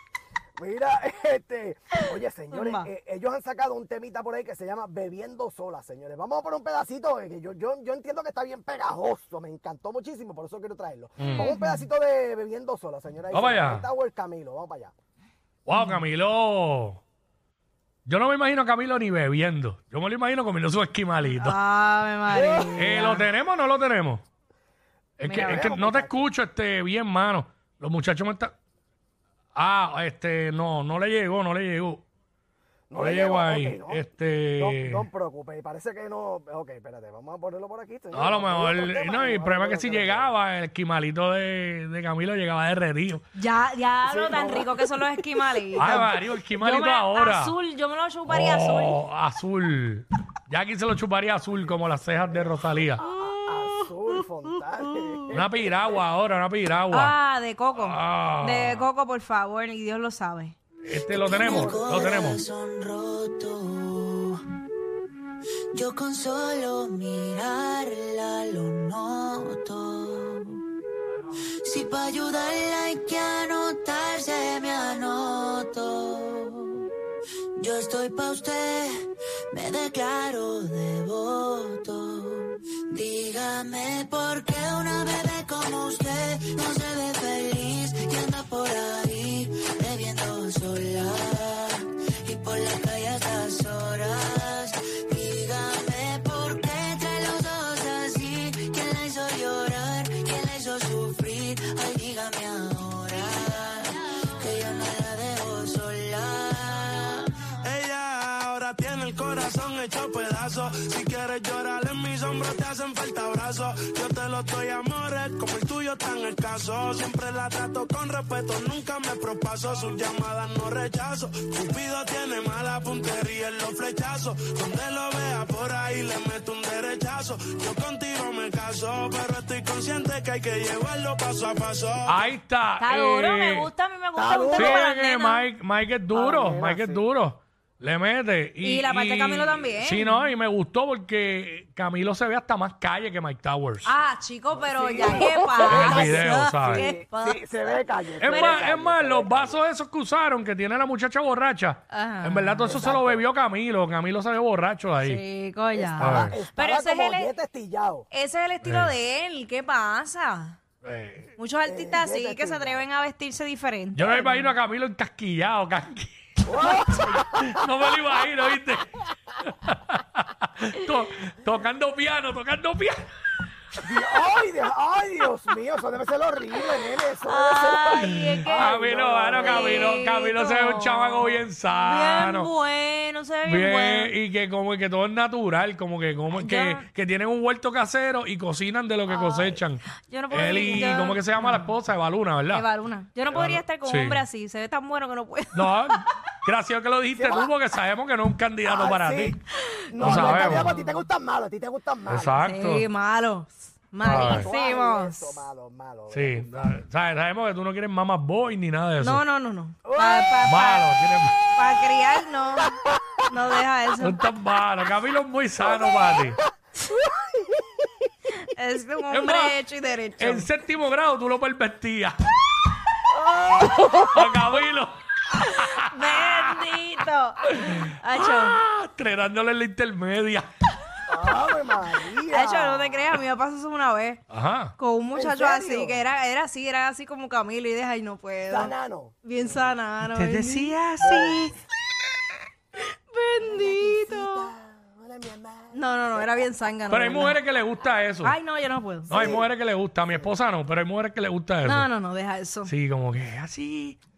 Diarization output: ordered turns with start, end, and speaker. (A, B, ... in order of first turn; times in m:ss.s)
0:00.6-0:14.9 A
0:02.5-0:02.9 B
0:11.2-0:11.5 C
0:11.3-0:11.8 B
0:13.3-0:13.9 C
0:15.6-0:17.0 C
0:18.0-0:21.6 C
0:21.3-0:23.2 B
0:22.3-0:23.0 A
0:22.7-0:24.2 C
0:25.2-0:28.5 C
0:25.2-0:25.7 B
0:25.3-0:26.3 A
0:29.5-0:32.0 C
0:32.9-0:34.0 A
0:33.0-0:35.0 C
0:34.6-0:40.3 A
0:38.1-0:43.2 C
0:43.4-0:49.0 B
0:44.0-0:45.1 A
0:45.7-0:47.6 C
0:48.3-0:53.0 C
0:51.5-0:56.0 A
0:53.0-0:54.2 B
0:54.8-0:55.1 B
0:55.3-0:57.2 C
0:56.9-1:00.6 B
0:57.7-0:58.9 C
1:00.8-1:02.4 C
1:01.1-1:04.4 D
1:01.5-1:02.0 A
1:05.7-1:10.6 D
1:11.6-1:16.9 D
1:17.6-1:47.3 D
1:47.6-2:12.2 E
2:12.0-2:13.7 C
2:12.8-2:15.5 B
2:14.1-2:14.8 A
2:14.5-2:23.9 C
2:16.1-2:17.0 A
2:18.6-2:20.3 B
2:23.8-2:28.7 B
2:24.6-2:29.6 A
2:25.6-2:26.9 C
2:28.2-2:35.2 C
2:31.9-2:32.7 B
2:32.6-2:33.2 A
2:35.0-2:37.3 B
2:35.7-2:38.1 A
2:36.0-2:36.4 C
2:38.1-2:40.6 B
2:38.6-2:38.9 C
2:40.8-2:41.3 C
2:41.4-2:44.4 B
2:41.6-2:42.8 A
2:43.9-2:46.4 C
2:46.4-2:47.5 A
2:47.1-2:53.0 C
2:53.8-2:59.9 A
2:57.3-3:04.2 B
2:58.5-3:02.5 C
3:03.4-3:12.7 C
3:06.3-3:06.8 B
3:09.1-3:11.7 B
3:12.5-3:16.1 B
3:13.3-3:14.2 C
3:15.5-3:19.4 C
3:17.1-3:17.5 A
3:18.6-3:19.4 A
3:19.7-3:21.0 B
3:19.9-3:22.4 A
3:20.0-3:20.8 C
3:22.1-3:22.9 C
3:22.4-3:25.4 B
3:24.0-3:24.5 C
3:24.0-3:26.7 A
3:26.1-3:29.2 C
3:29.0-3:30.9 B
3:29.8-3:30.3 A
3:30.4-3:31.5 C
3:31.5-3:34.2 B
3:34.0-3:36.4 C
3:35.7-3:36.4 A
3:37.2-3:37.8 A
3:38.4-3:40.5 B
3:39.1-3:39.6 C
3:40.2-3:42.2 C
3:43.1-3:44.0 A
3:43.9-3:46.6 C
3:45.6-3:48.6 B
3:47.4-3:50.5 C
3:51.1-3:53.1 A
3:52.3-3:54.2 B
3:54.3-3:54.7 C
3:54.8-4:01.5 B
3:55.1-3:56.0 A
3:58.5-3:59.7 A
4:00.1-4:00.8 C
4:01.0-4:01.5 A
4:03.1-4:04.5 B
4:03.4-4:06.5 A
4:05.7-4:07.4 B
4:06.9-4:08.4 C
4:08.2-4:09.2 B
4:09.1-4:11.9 C
4:09.1-4:09.5 A
4:11.6-4:12.7 B
4:12.6-4:14.0 C